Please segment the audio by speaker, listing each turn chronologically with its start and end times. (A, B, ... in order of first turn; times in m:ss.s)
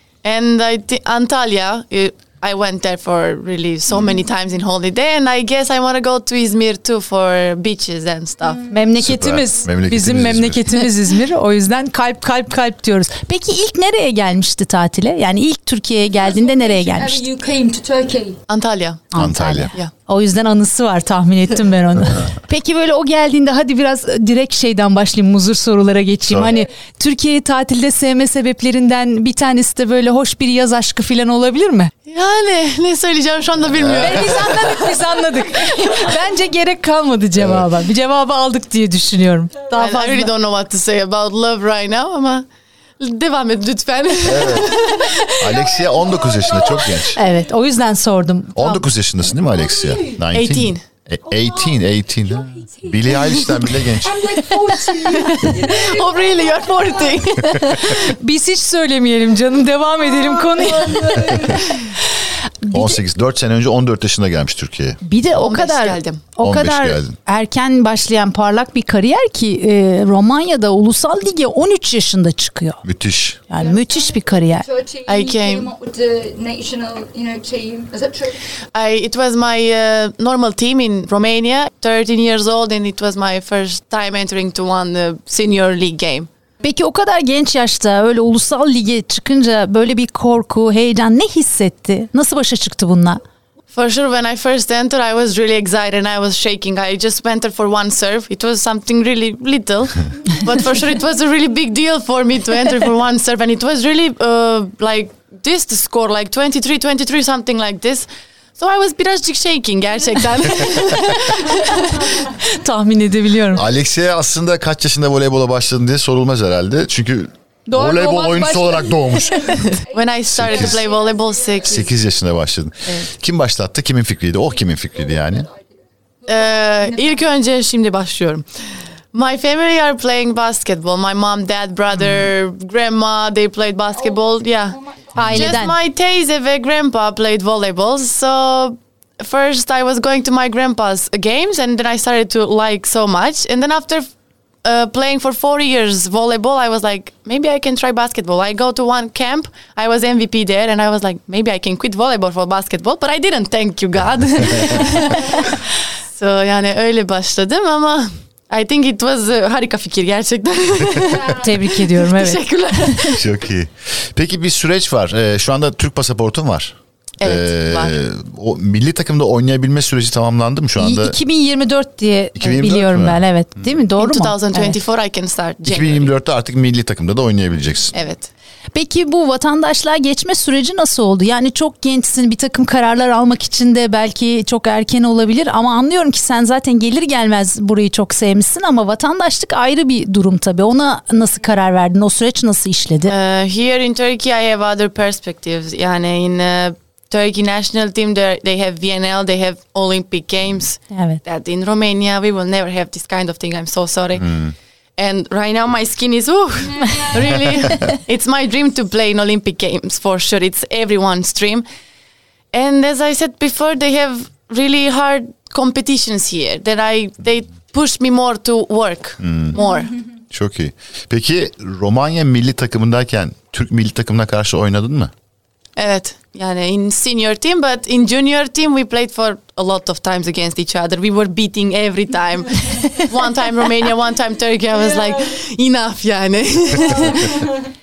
0:00.2-0:08.6 A
0:08.7-0:17.2 B
0:09.0-0:10.6 C
0:16.3-0:18.4 D
0:18.5-0:19.1 A
0:19.1-0:31.9 B
0:19.1-0:19.7 C
0:26.3-0:26.5 C
0:32.0-0:35.0 A
0:33.7-0:34.5 C
0:34.0-0:40.3 B
0:37.4-0:37.6 C
0:39.7-0:42.4 A
0:43.0-0:45.6 A
0:44.2-0:44.7 C
0:44.9-0:47.1 D
0:45.4-0:47.2 C
0:47.2-0:48.8 B
0:48.6-0:54.2 C
0:49.4-0:50.2 D
0:50.3-0:50.8 A
0:51.3-0:57.2 D
0:53.2-0:53.4 A
0:55.0-0:58.0 A
0:57.6-1:01.9 B
1:00.2-1:01.6 D
1:02.6-1:03.0 B
1:02.7-1:05.0 C
1:05.0-1:12.8 B
1:05.4-1:06.2 A
1:06.4-1:07.2 C
1:12.8-1:13.4 C
1:13.5-1:14.6 B
1:13.6-1:18.4 D
1:15.1-1:15.7 A
1:18.7-1:26.3 A
1:26.6-1:33.2 B
1:33.7-1:48.1 A
1:48.6-1:52.0 A
1:52.0-1:53.7 B
1:53.5-1:59.6 C
1:57.7-1:59.4 B
1:59.5-2:01.9 A
1:59.9-2:01.3 D
2:00.3-2:00.9 C
2:01.6-2:05.5 C
2:06.3-2:07.2 D
2:06.3-2:08.4 A
2:09.1-2:24.0 A
2:14.0-2:15.1 D
2:15.1-2:15.7 B
2:24.6-2:35.6 A
2:36.1-2:43.2 A
2:41.1-2:41.5 D
2:41.3-2:42.4 B
2:43.1-2:51.2 C
2:47.2-2:48.0 A
2:50.8-2:54.8 B
2:52.4-2:53.7 C
2:54.0-2:56.1 A
2:55.7-2:57.9 C
2:57.9-2:58.3 A
2:58.7-3:13.1 B
3:13.1-3:24.4 A
3:20.9-3:21.2 B
3:25.0-3:31.6 A
3:26.6-3:27.5 D
3:32.5-3:39.9 A
3:39.2-3:39.6 C
3:40.3-3:45.1 C
3:45.8-3:57.4 A